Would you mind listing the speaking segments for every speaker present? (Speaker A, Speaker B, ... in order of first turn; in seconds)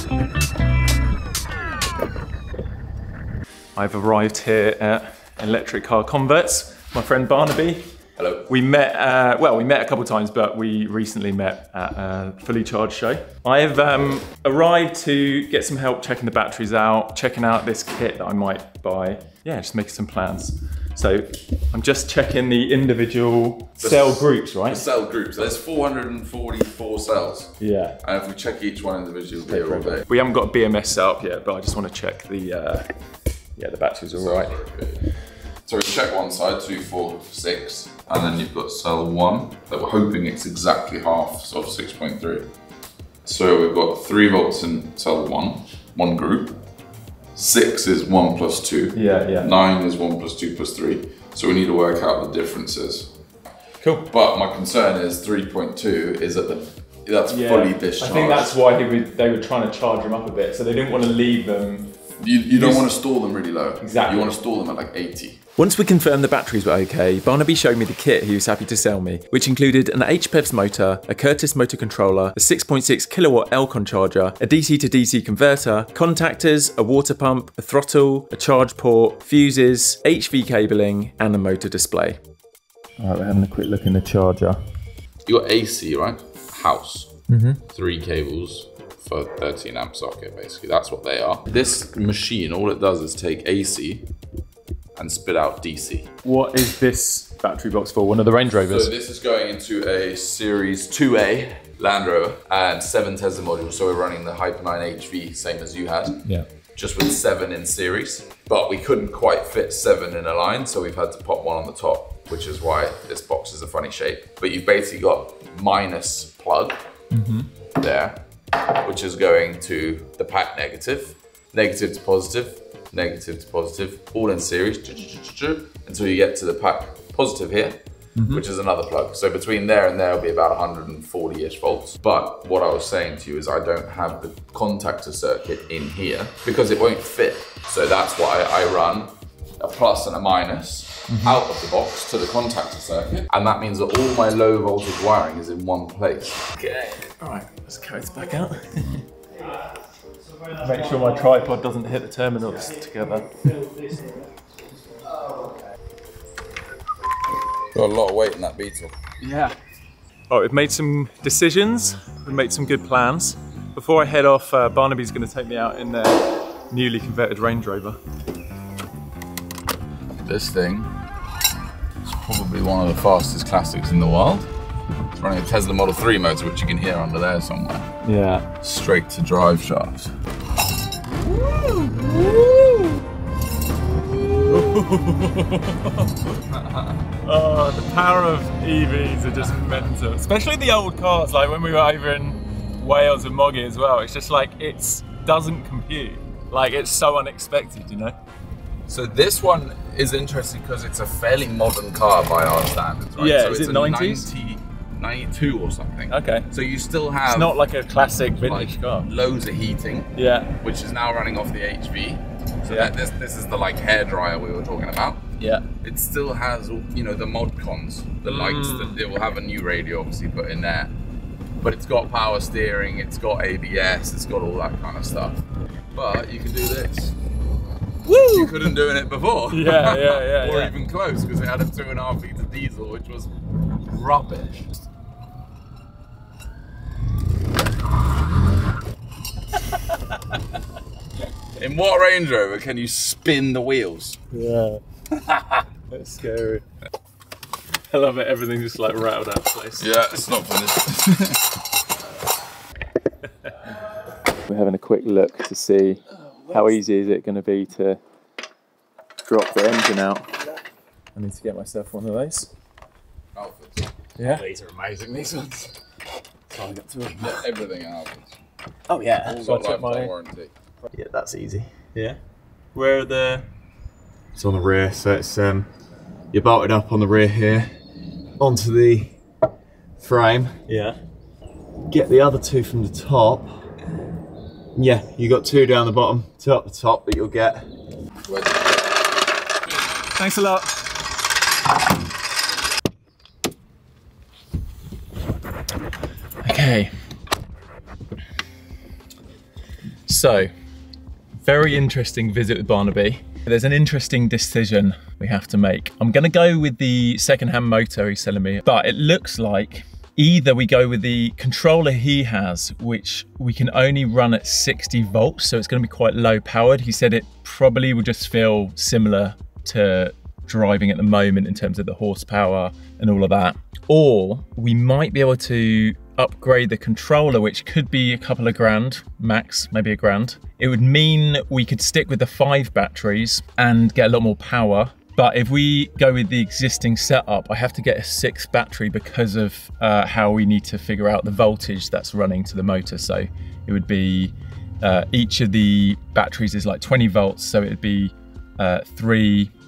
Speaker A: 3.8-7.9, 8.5-24.9, 27.6-28.0, 29.5-32.9, 33.6-34.5, 49.0-49.5, 53.8-54.1, 57.3-61.9, 62.5-62.9, 63.8-64.3, 65.6-82.2, 83.0-84.6, 87.3-87.6, 96.2-98.9, 117.1-117.5, 128.2-128.4, 141.1-141.4, 146.6-149.1, 150.6-153.5, 159.2-159.6, 160.3-168.0, 178.0-178.5, 181.5-182.8, 184.5-186.2, 187.2-198.2, 203.2-204.3, 206.1-206.5, 207.3-209.1, 210.2-210.5, 212.7-212.9, 215.4-215.7, 218.2-219.0, 228.1-228.5, 229.5-230.7, 244.3-244.8, 245.9-246.6, 247.9-249.9, 254.5-258.0, 259.2-260.3, 261.1-262.5, 264.2-264.5, 269.2-270.1, 272.8-273.5, 280.7-281.0, 290.1-290.7, 296.4-296.9, 300.1-300.5, 301.4-349.5
Speaker B: 8.2-8.5, 23.8-30.1, 34.1-35.1, 35.7-42.5, 43.2-46.6, 47.3-53.1, 54.1-58.6, 62.2-65.4, 85.3-87.2, 87.7-94.1, 95.0-96.1, 98.7-106.2, 106.8-116.8, 117.8-146.4, 157.7-158.9, 170.2-170.9, 172.0-174.5, 175.2-177.9, 178.6-180.1, 186.5-187.1, 198.9-207.6, 208.4-215.2, 215.8-220.9, 221.6-227.2, 228.1-233.3, 233.8-234.8, 241.5-244.2, 249.8-251.5, 263.3-263.9, 267.2-268.4, 269.2-270.5, 288.3-288.9
Speaker C: 264.2-265.7, 266.5-267.4, 268.9-269.4, 271.0-272.1, 274.4-275.7, 276.3-277.7, 278.4-279.1, 280.0-280.7, 281.9-283.6, 284.8-287.6